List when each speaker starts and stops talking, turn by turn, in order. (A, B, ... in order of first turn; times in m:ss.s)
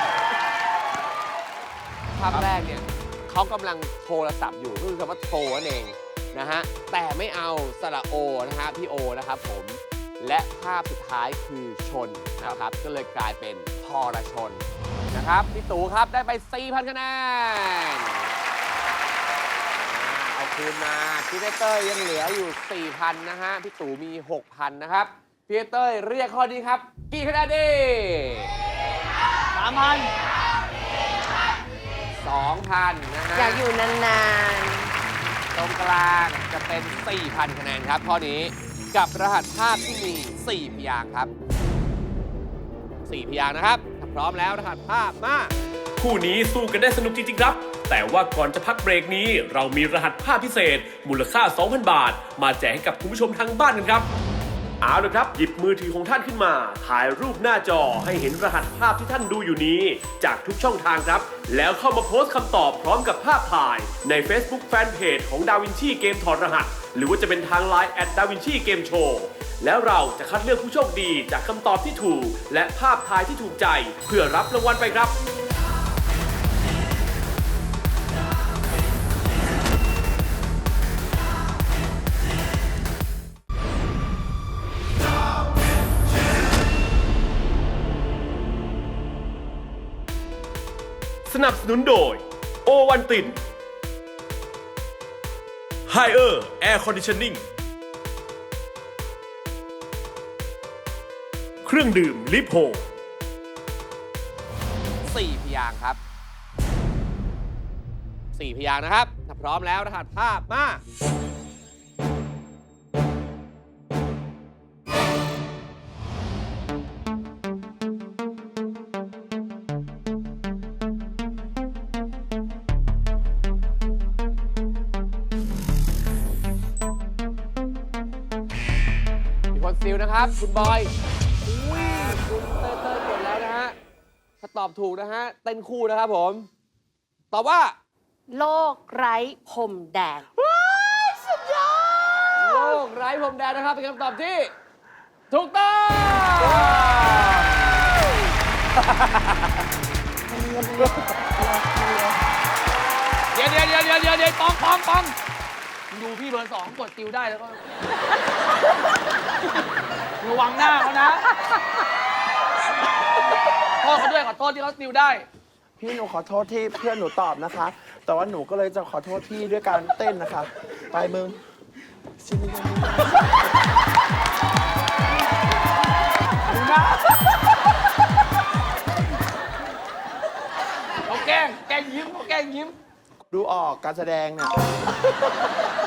0:02.1-0:18.3 A
0:19.8-0:28.5 A
0:29.5-0:30.1 B
0:32.2-0:33.6 A
0:33.4-0:34.9 C
0:35.6-0:41.3 A
0:43.1-0:45.5 A
0:46.0-0:54.1 D
0:54.8-1:15.2 D
1:31.3-1:33.4 D
1:35.9-1:37.4 D
1:41.6-1:42.8 D
1:45.0-1:46.0 A
1:48.4-1:50.8 A
2:09.5-2:10.9 A
2:11.5-2:13.8 A
2:14.4-2:16.5 A
2:17.3-2:17.8 A
2:18.3-2:20.3 C
2:20.4-2:22.8 E
2:22.4-2:24.5 A
2:25.3-2:27.8 A
2:28.8-2:29.6 A
2:30.3-2:32.1 E
2:33.3-2:35.2 B
2:35.9-2:37.7 B
2:40.2-2:41.3 B
2:43.8-2:45.2 B
2:45.8-2:51.4 E
2:52.2-2:53.4 E
2:56.4-2:57.4 B
3:01.1-3:02.8 B
3:03.3-3:04.6 E